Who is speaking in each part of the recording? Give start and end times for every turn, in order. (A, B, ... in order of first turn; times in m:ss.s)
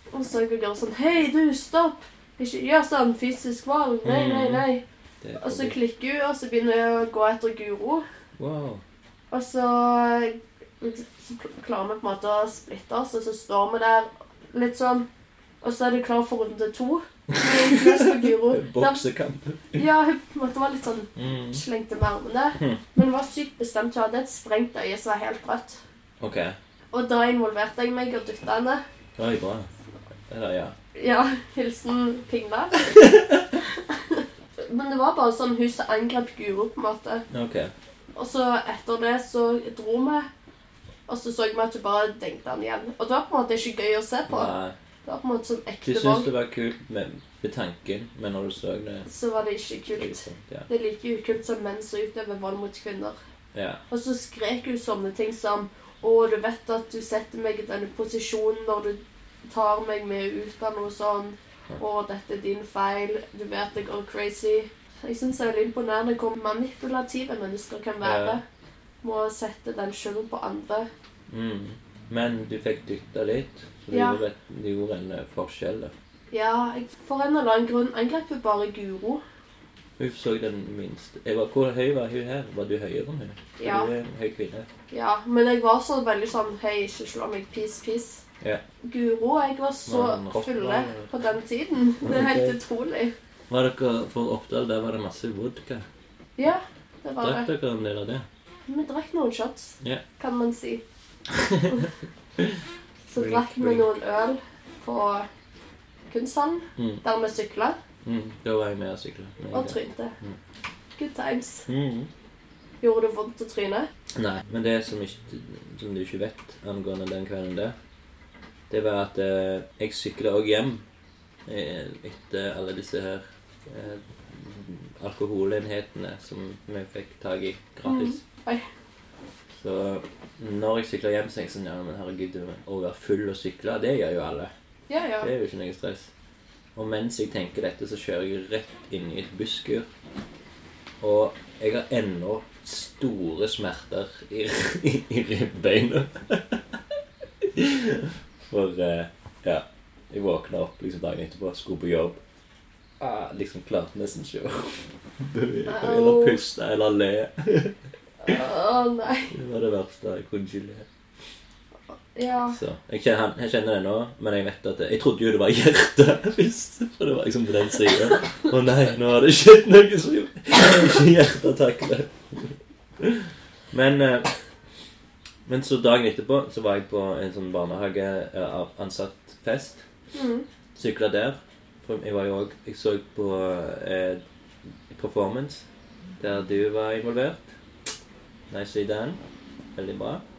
0:00.1-0:04.8 A
0:04.0-0:04.7 B
0:05.2-0:05.8 B
0:05.4-0:08.0 A
0:08.4-0:08.8 B
0:09.3-0:15.1 A
0:15.6-0:19.0 A
0:17.3-0:19.8 B
0:19.8-0:25.8 A
0:21.2-0:21.6 B
0:26.2-0:26.6 B
0:26.9-0:28.8 A
0:29.2-0:29.7 B
0:30.3-0:30.8 B
0:31.0-0:37.2 A
0:33.2-0:33.4 B
0:37.3-0:37.7 B
0:38.1-0:40.3 A
0:41.1-0:44.5 A
0:44.3-0:44.8 B
0:45.0-0:46.3 A
0:45.8-0:49.1 B
0:49.1-0:53.2 A
0:49.9-0:50.7 B
0:53.5-0:53.8 B
0:53.9-1:08.4 A
1:08.0-1:08.4 B
1:09.0-1:10.9 A
1:11.3-1:15.9 B
1:13.9-1:14.2 A
1:16.3-1:19.2 A
1:20.0-1:24.7 B
1:23.6-1:23.9 A
1:24.9-1:28.2 A
1:28.8-1:33.2 A
1:29.9-1:31.1 B
1:32.0-1:32.6 B
1:33.5-1:35.9 B
1:36.4-1:37.5 A
1:37.2-1:38.3 B
1:38.7-1:40.8 A
1:41.3-1:41.9 B
1:43.1-1:45.3 A
1:43.2-1:43.9 B
1:46.1-1:47.8 A
1:46.8-1:47.0 B
1:48.0-1:50.4 B
1:49.5-1:50.1 A
1:51.0-1:51.7 A
1:51.7-1:52.1 B
1:52.8-1:53.9 A
1:54.2-1:57.8 B
1:58.7-2:00.8 B
2:01.5-2:08.2 B
2:07.9-2:08.7 A
2:09.5-2:14.5 B
2:14.9-2:15.3 A
2:15.2-2:16.1 B
2:16.8-2:19.9 B
2:21.0-2:26.8 B
2:27.4-2:32.2 B
2:33.0-2:38.4 B
2:35.7-2:36.4 A
2:38.2-2:39.3 A
2:39.3-2:40.9 B
2:42.2-2:42.6 A
2:42.5-2:54.3 B
2:55.5-2:59.8 B
3:00.1-3:00.5 A
3:00.8-3:04.2 B
3:04.9-3:05.6 B
3:06.2-3:07.5 B
3:08.5-3:09.2 B
3:09.8-3:10.2 B